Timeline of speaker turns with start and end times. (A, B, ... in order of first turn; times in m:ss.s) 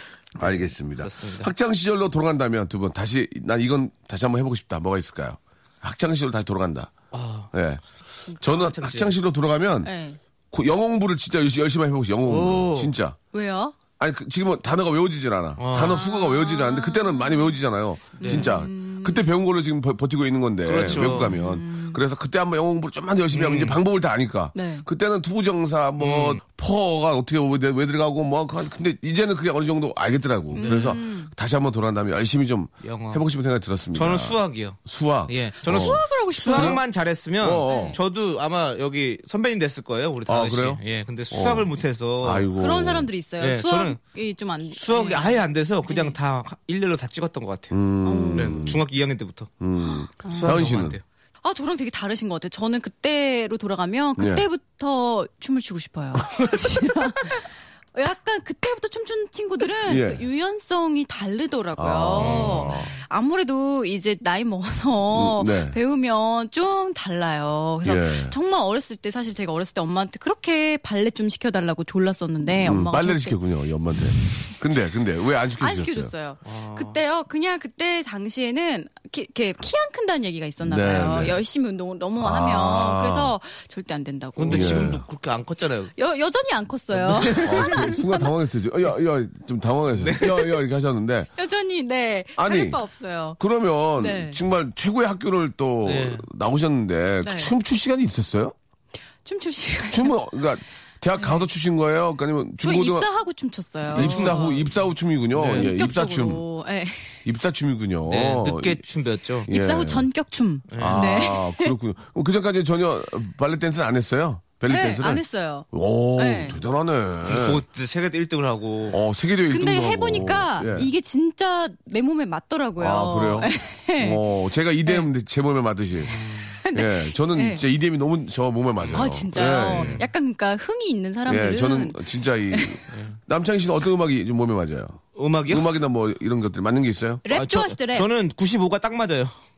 0:00.4-0:06.9 A
0:00.4-0:01.5 B
0:07.1-0:07.5 B
0:07.5-0:09.9 A
0:08.4-0:09.2 B
0:09.8-0:10.2 C
0:10.5-0:13.2 A
0:12.3-0:12.9 B
0:13.3-0:13.8 C
0:14.0-0:36.0 A
0:15.6-0:16.0 B
0:15.8-0:17.6 C
0:18.2-0:19.2 C
0:18.2-0:18.5 B
0:20.7-0:21.4 B
0:20.8-0:22.0 C
0:23.3-0:23.8 B
0:24.6-0:24.8 C
0:26.0-0:26.4 B
0:30.5-0:31.3 C
0:30.6-0:31.0 B
0:32.8-0:33.2 B
0:33.9-0:42.5 B
0:35.6-0:36.8 C
0:36.5-0:36.8 A
0:37.4-0:37.9 A
0:37.6-0:38.0 C
0:40.3-0:41.7 A
0:42.2-0:43.1 A
0:42.6-0:46.2 C
0:43.4-0:44.0 B
0:44.7-0:47.7 B
0:47.7-0:48.8 A
0:48.0-0:48.7 C
0:48.3-0:49.5 B
0:49.6-0:51.0 A
0:50.2-0:50.7 C
0:50.4-0:51.0 B
0:51.4-1:13.4 C
0:54.2-0:54.5 A
0:59.9-1:00.2 A
1:01.8-1:02.9 A
1:02.2-1:02.8 B
1:05.1-1:05.8 A
1:07.8-1:08.4 A
1:12.6-1:16.1 A
1:15.6-1:25.0 C
1:16.4-1:17.0 B
1:20.6-1:21.4 A
1:22.2-1:23.3 A
1:24.4-1:25.9 B
1:24.5-1:25.0 A
1:26.0-1:28.3 C
1:26.9-1:27.7 B
1:27.4-1:31.3 A
1:30.0-1:30.6 B
1:31.4-1:33.4 C
1:32.4-1:32.8 A
1:33.4-1:38.6 A
1:34.0-1:34.4 C
1:35.8-1:36.3 B
1:37.2-1:37.5 C
1:39.3-1:40.1 C
1:39.9-1:43.1 A
1:41.2-1:41.4 C
1:42.6-1:44.7 C
1:43.9-1:46.4 A
1:43.9-1:44.5 B
1:45.4-1:45.7 B
1:45.4-1:47.2 C
1:47.2-1:48.8 A
1:48.1-1:49.5 B
1:49.5-1:50.1 A
1:49.5-1:51.7 C
1:50.7-1:51.0 B
1:50.8-1:57.6 A
1:54.7-1:56.6 C
1:57.3-1:59.0 B
1:58.9-2:00.9 A
1:59.5-2:04.2 C
2:02.8-2:06.1 A
2:06.0-2:06.6 B
2:06.6-2:07.6 C
2:06.7-2:10.0 A
2:08.8-2:10.1 B
2:08.9-2:12.8 C
2:11.3-2:17.2 A
2:15.2-2:15.7 B
2:17.2-2:18.1 C
2:17.3-2:19.4 B